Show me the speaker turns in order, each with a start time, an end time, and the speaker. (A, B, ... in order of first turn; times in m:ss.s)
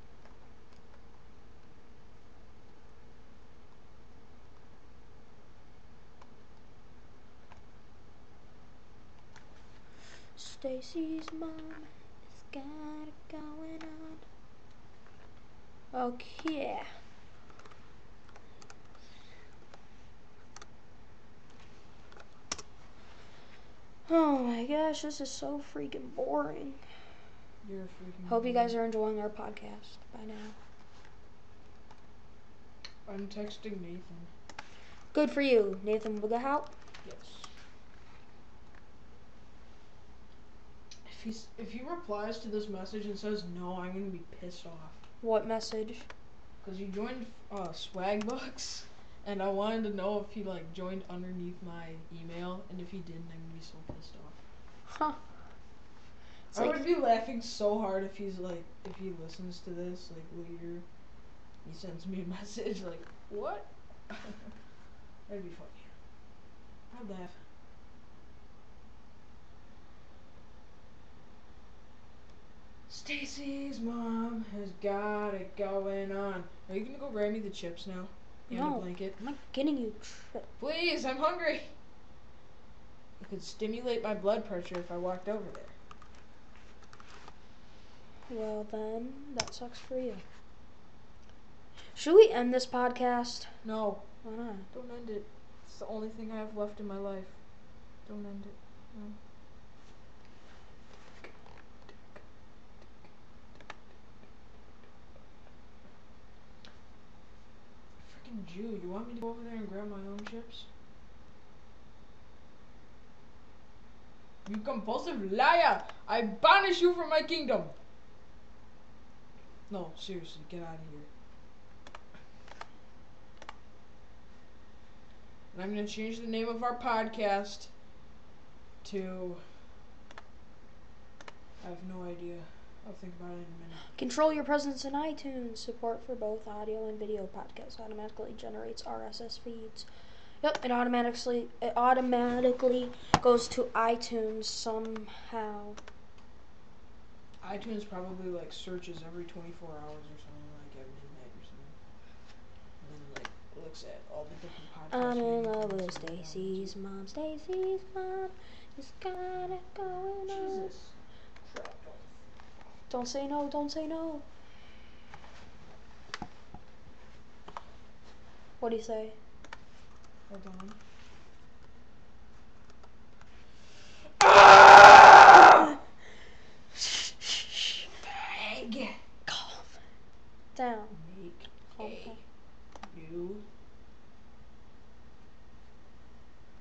0:10.4-0:14.2 A
0:15.9-0:16.9 A
0:24.1-0:26.8 A
0:27.6-0:28.8 B
0:28.3-0:30.6 A
0:33.1-0:34.3 B
0:35.1-0:36.7 A
0:37.0-0:37.5 B
0:41.0-0:45.0 B
0:45.2-0:46.1 A
0:46.6-0:54.4 B
0:54.9-0:55.2 A
0:56.5-1:00.9 B
0:56.5-0:56.8 A
1:01.6-1:04.5 B
1:05.3-1:05.9 B
1:06.9-1:07.4 B
1:12.9-1:19.2 B
1:18.5-1:20.5 A
1:20.6-1:21.7 B
1:23.2-1:25.8 B
1:28.3-1:30.2 A
1:32.0-1:33.5 A
1:33.6-1:34.1 B
1:34.2-1:34.7 A
1:34.7-1:37.4 B
1:38.0-1:39.2 B
1:48.0-1:50.7 B
1:54.4-1:57.8 B
1:59.7-2:01.1 B
2:05.5-2:07.7 B
2:08.8-2:09.4 B
2:11.6-2:13.9 B
2:13.9-2:19.9 A
2:20.4-2:25.8 A
2:27.4-2:31.8 B
2:32.8-2:36.8 B
2:34.9-2:40.7 A
2:40.3-2:42.2 B
2:42.9-2:44.2 A
2:48.6-2:49.2 A
2:50.3-2:50.8 B
2:54.2-2:55.7 B
2:56.8-2:57.9 A
2:58.0-2:59.0 B
2:59.3-2:59.7 A
3:00.6-3:01.0 A
3:00.9-3:02.2 B
3:01.7-3:02.2 A
3:02.9-3:03.4 B